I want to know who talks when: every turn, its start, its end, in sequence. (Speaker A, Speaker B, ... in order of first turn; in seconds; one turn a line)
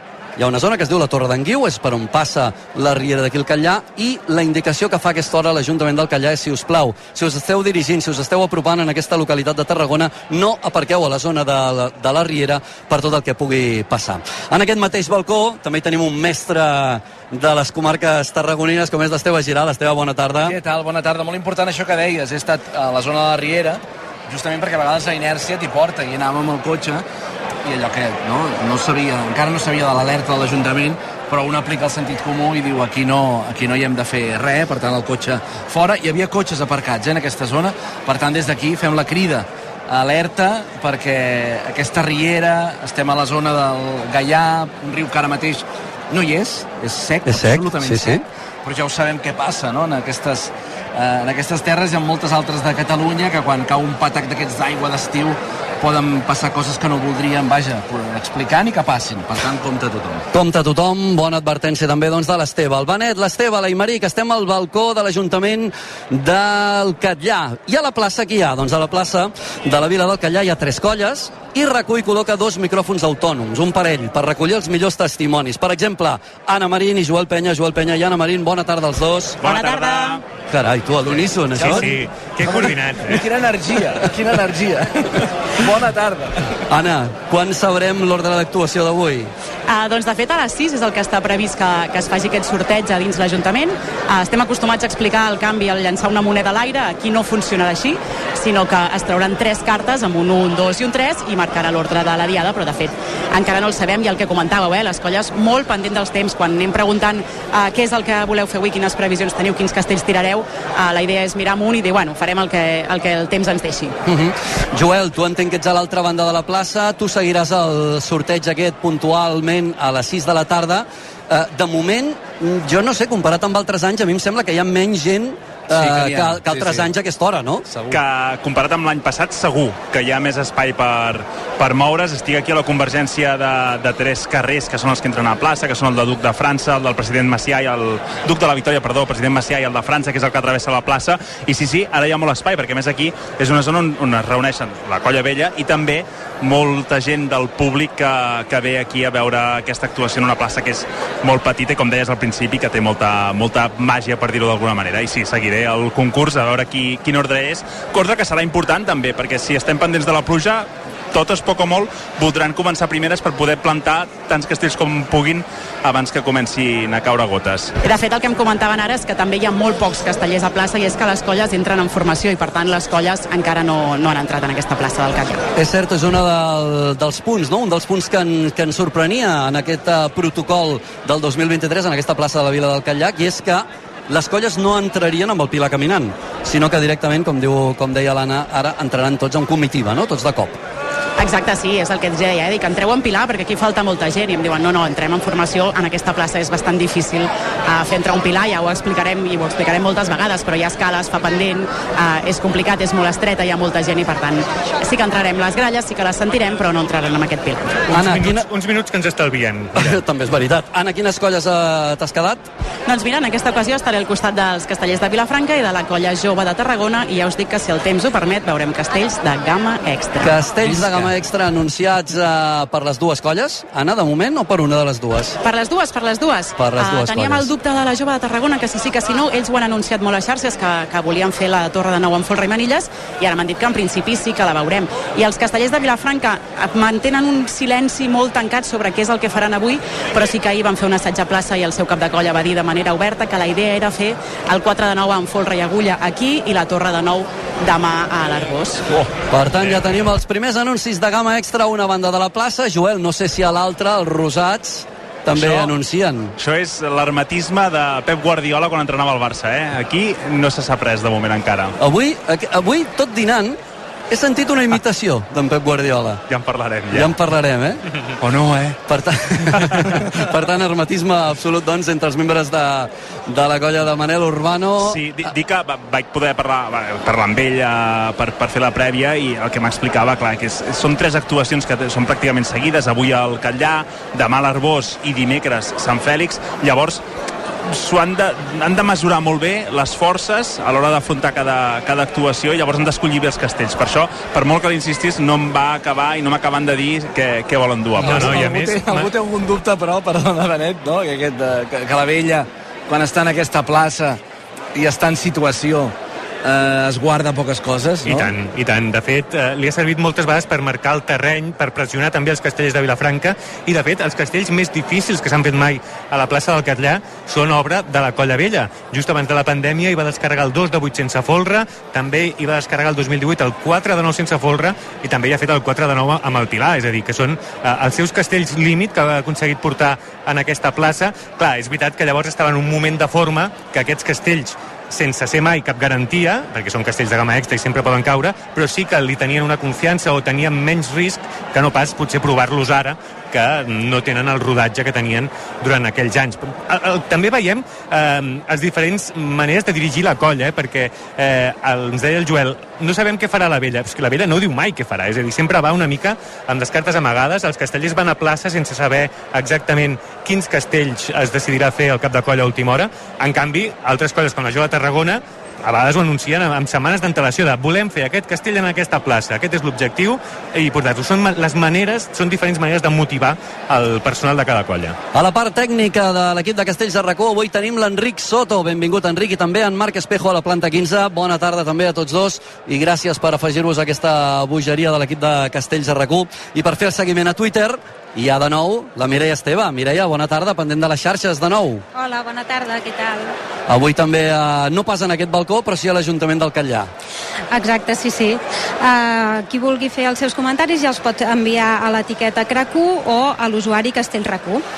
Speaker A: 0.4-20.5
Speaker B: 20.4-27.0
Speaker B: 27.6-60.3
Speaker A: 47.2-48.2
Speaker A: 60.3-79.4
Speaker C: 79.4-80.2
Speaker D: 79.4-80.2
Speaker A: 80.5-81.9
Speaker B: 81.5-86.3
Speaker E: 81.6-83.2
Speaker A: 86.7-89.3
Speaker D: 89.7-114.0
Speaker A: 114.0-127.7
Speaker B: 125.7-126.9
Speaker B: 127.7-128.0
Speaker C: 127.9-167.7
Speaker D: 167.8-175.4
Speaker A: 175.5-190.6
Speaker D: 191.2-207.8
Speaker A: 207.9-208.4
Speaker E: 207.9-210.0
Speaker A: 209.8-212.4
Speaker D: 212.9-220.3
Speaker A: 220.2-225.4
Speaker D: 225.4-248.9
Speaker A: 226.6-227.5
Speaker A: 249.3-256.3
Speaker C: 255.3-255.7
Speaker C: 256.4-261.7
Speaker A: 261.8-263.6
Speaker A: 264.1-266.2
Speaker C: 266.3-267.1
Speaker A: 266.9-267.8
Speaker C: 268.2-268.7
Speaker A: 268.9-275.0
Speaker C: 274.8-287.0
Speaker C: 287.7-298.4
Speaker E: 298.0-299.1
Speaker B: 298.0-304.2
Speaker B: 304.7-308.3
Speaker E: 308.0-375.0
Speaker A: 375.1-391.8
Speaker F: 391.9-393.3
Speaker A: 393.7-396.9
Speaker F: 397.5-404.6